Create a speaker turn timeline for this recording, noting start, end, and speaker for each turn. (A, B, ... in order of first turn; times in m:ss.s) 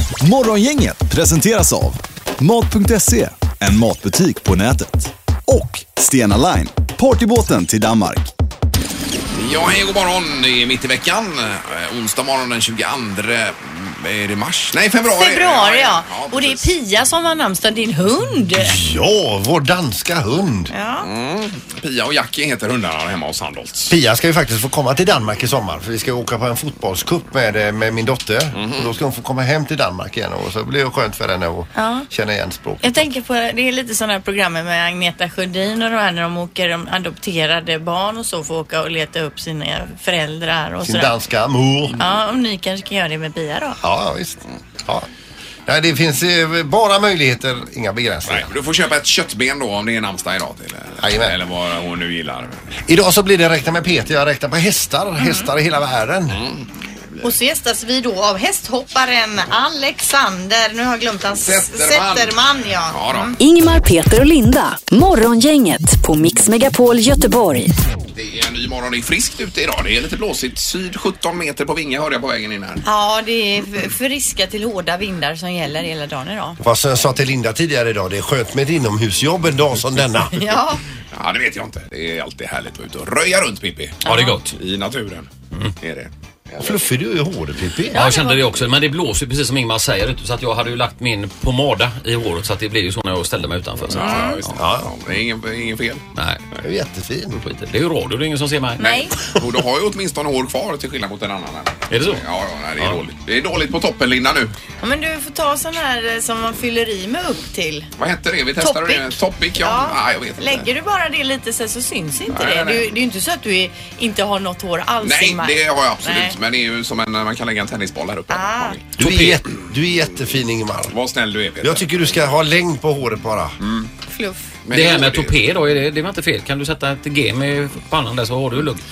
0:00.2-0:08.3 A
0:09.3-0:16.7 B
0:15.2-0:18.8 C
0:18.6-0:20.7 D
0:20.7-0:21.1 C
0:21.0-0:23.9 B
0:23.9-0:33.0 D
0:28.5-0:28.9 B
0:31.8-0:32.1 C
0:32.8-0:41.1 C
0:40.8-0:42.0 D
0:42.0-0:43.8 C
0:43.8-0:45.0 D
0:45.6-0:48.5 D
0:48.3-0:52.8 B
0:51.0-0:51.4 D
0:52.8-0:56.4 D
0:55.2-0:55.5 C
0:56.3-0:57.3 B
0:57.2-1:03.4 C
1:01.4-1:02.4 B
1:02.9-1:03.3 B
1:03.4-1:07.7 E
1:08.2-1:12.8 B
1:12.8-1:16.6 C
1:16.6-1:20.3 D
1:20.4-1:20.8 C
1:21.1-1:26.8 B
1:24.0-1:24.4 C
1:24.0-1:24.5 F
1:26.6-1:28.0 D
1:27.9-1:28.4 C
1:27.9-1:34.5 F
1:33.9-1:36.0 B
1:34.0-1:34.4 C
1:34.6-1:34.9 D
1:36.2-1:36.4 F
1:36.6-1:37.4 D
1:37.4-1:38.9 F
1:38.8-1:39.1 C
1:38.8-1:44.5 B
1:41.9-1:42.2 F
1:44.8-1:47.9 C
1:48.0-1:50.7 B
1:48.6-1:56.3 C
1:52.3-1:52.9 B
1:55.0-1:58.8 B
1:58.3-1:58.8 C
1:59.0-1:59.4 F
1:59.0-2:01.0 D
2:00.9-2:02.3 B
2:01.6-2:03.6 D
2:03.6-2:03.9 B
2:04.1-2:04.4 C
2:04.6-2:05.4 B
2:04.7-2:08.8 F